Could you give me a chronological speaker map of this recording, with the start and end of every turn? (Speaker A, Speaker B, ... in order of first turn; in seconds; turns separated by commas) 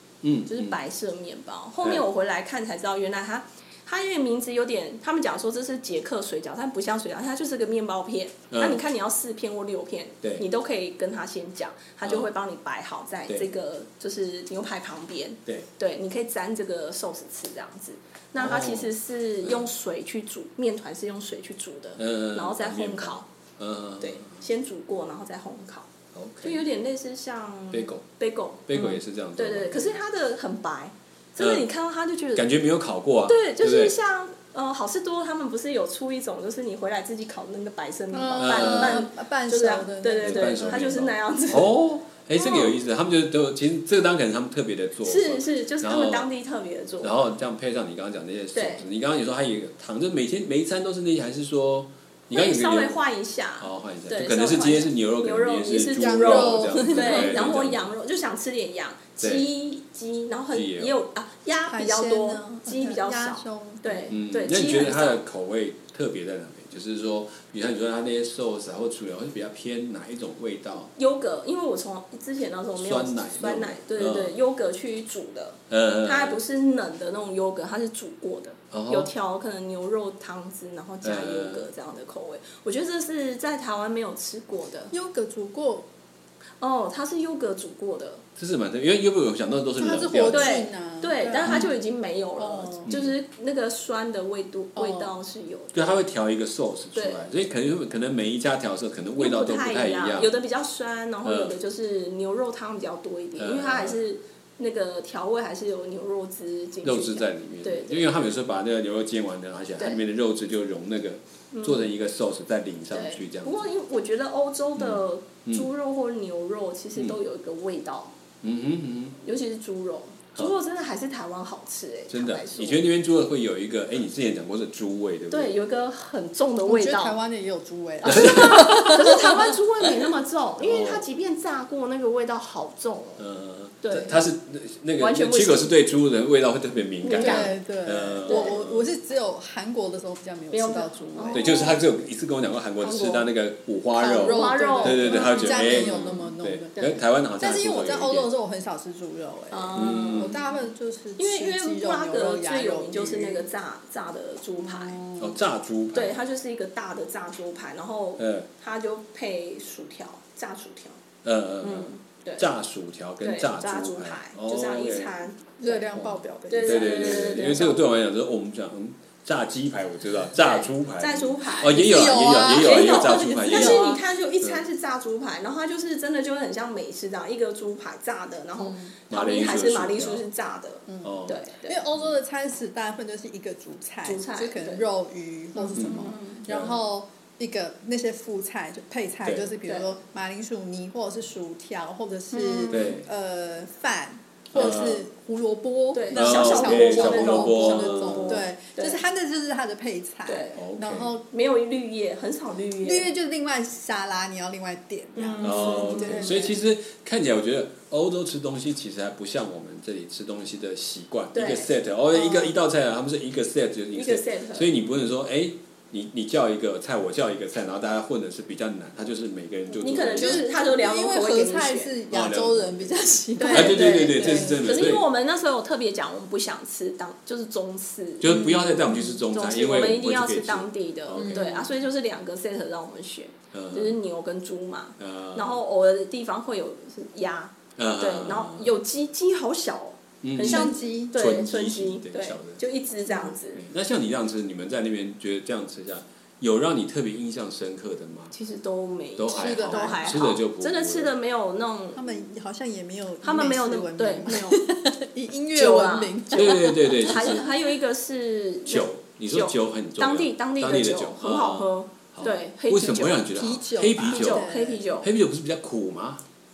Speaker A: 0.2-0.8, Speaker B: 0.5-23.3, Speaker A: 8.5-8.8, Speaker A: 12.0-12.3, Speaker A: 18.4-19.6, Speaker A: 22.0-24.4, Speaker B: 24.0-25.9, Speaker A: 26.1-26.6, Speaker B: 26.4-32.5, Speaker A: 27.7-28.0, Speaker A: 28.7-29.9, Speaker A: 31.4-31.7, Speaker A: 32.3-33.9, Speaker B: 33.2-41.7, Speaker C: 38.1-40.8, Speaker A: 38.4-39.0, Speaker A: 40.2-46.3, Speaker B: 42.4-42.7, Speaker B: 45.0-47.1, Speaker A: 47.0-53.0, Speaker B: 48.5-48.8, Speaker B: 52.3-65.2, Speaker A: 53.6-57.9, Speaker C: 55.9-57.5, Speaker A: 59.2-59.5, Speaker A: 60.5-60.9, Speaker C: 61.7-64.1, Speaker A: 64.1-70.9, Speaker B: 71.0-84.9, Speaker A: 72.8-74.4, Speaker A: 75.7-76.4, Speaker A: 78.7-79.1, Speaker A: 81.0-81.7, Speaker C: 84.9-85.9, Speaker B: 86.6-88.2, Speaker A: 88.4-90.5, Speaker C: 89.8-91.7, Speaker B: 90.3-96.0, Speaker A: 91.4-91.7, Speaker C: 92.4-92.9, Speaker A: 92.8-93.2, Speaker C: 94.8-95.1, Speaker A: 95.7-100.3, Speaker B: 96.9-97.3, Speaker B: 99.2-108.2, Speaker A: 101.2-101.5, Speaker A: 103.4-104.0, Speaker A: 106.8-113.7, Speaker B: 111.5-111.9, Speaker B: 112.9-118.1, Speaker A: 114.8-115.7, Speaker A: 118.4-119.2, Speaker B: 119.2-122.8, Speaker A: 122.1-125.6, Speaker B: 125.3-127.2, Speaker C: 126.7-129.5, Speaker B: 128.0-133.2, Speaker A: 128.1-129.2, Speaker A: 130.6-131.1, Speaker A: 133.2-138.8, Speaker B: 133.8-134.2, Speaker B: 135.0-135.7, Speaker B: 137.0-137.6, Speaker C: 137.2-141.6, Speaker B: 138.2-138.6, Speaker B: 140.5-141.8, Speaker A: 141.3-148.3, Speaker C: 142.8-143.3, Speaker C: 143.9-146.7, Speaker B: 144.2-146.0, Speaker B: 146.7-147.0, Speaker C: 147.4-153.5, Speaker B: 149.5-150.3, Speaker A: 149.7-150.4, Speaker B: 151.2-155.0, Speaker C: 154.6-155.4, Speaker A: 155.2-156.2, Speaker B: 155.9-161.0, Speaker A: 158.2-158.5, Speaker A: 161.2-165.1, Speaker B: 161.6-162.5, Speaker B: 163.2-165.9, Speaker C: 165.6-167.4, Speaker A: 165.9-174.6, Speaker B: 166.5-167.8, Speaker B: 170.3-181.8, Speaker C: 171.8-174.0, Speaker C: 178.6-178.9, Speaker A: 179.1-180.2, Speaker C: 180.9-201.2, Speaker A: 181.0-181.4, Speaker B: 184.0-184.8, Speaker B: 185.5-186.4, Speaker A: 185.7-186.8, Speaker A: 189.2-189.5, Speaker B: 192.3-193.0, Speaker A: 192.7-193.0, Speaker A: 194.5-195.0, Speaker B: 195.9-199.0, Speaker A: 196.1-198.4, Speaker B: 200.3-200.6, Speaker A: 200.5-201.1, Speaker B: 201.3-203.1, Speaker C: 202.8-206.5, Speaker B: 205.1-206.6, Speaker A: 205.4-220.4, Speaker B: 211.3-211.7, Speaker C: 212.1-212.6, Speaker B: 213.9-214.7, Speaker B: 219.8-221.9, Speaker C: 220.1-225.0, Speaker A: 222.1-222.9, Speaker B: 223.4-228.7, Speaker A: 223.5-225.1, Speaker A: 228.2-231.5, Speaker C: 228.2-229.2, Speaker B: 229.3-243.6, Speaker C: 231.2-231.7, Speaker A: 233.5-234.0, Speaker A: 235.0-235.6, Speaker A: 237.8-238.7, Speaker A: 240.2-242.6, Speaker C: 240.4-241.1, Speaker A: 243.5-248.3, Speaker B: 248.3-252.0, Speaker A: 249.2-251.1, Speaker C: 249.3-250.2, Speaker C: 251.9-257.4, Speaker B: 253.2-254.6, Speaker B: 255.5-263.2, Speaker A: 256.3-257.5, Speaker A: 258.7-264.4, Speaker C: 263.3-264.9, Speaker B: 264.1-265.1, Speaker A: 265.0-266.2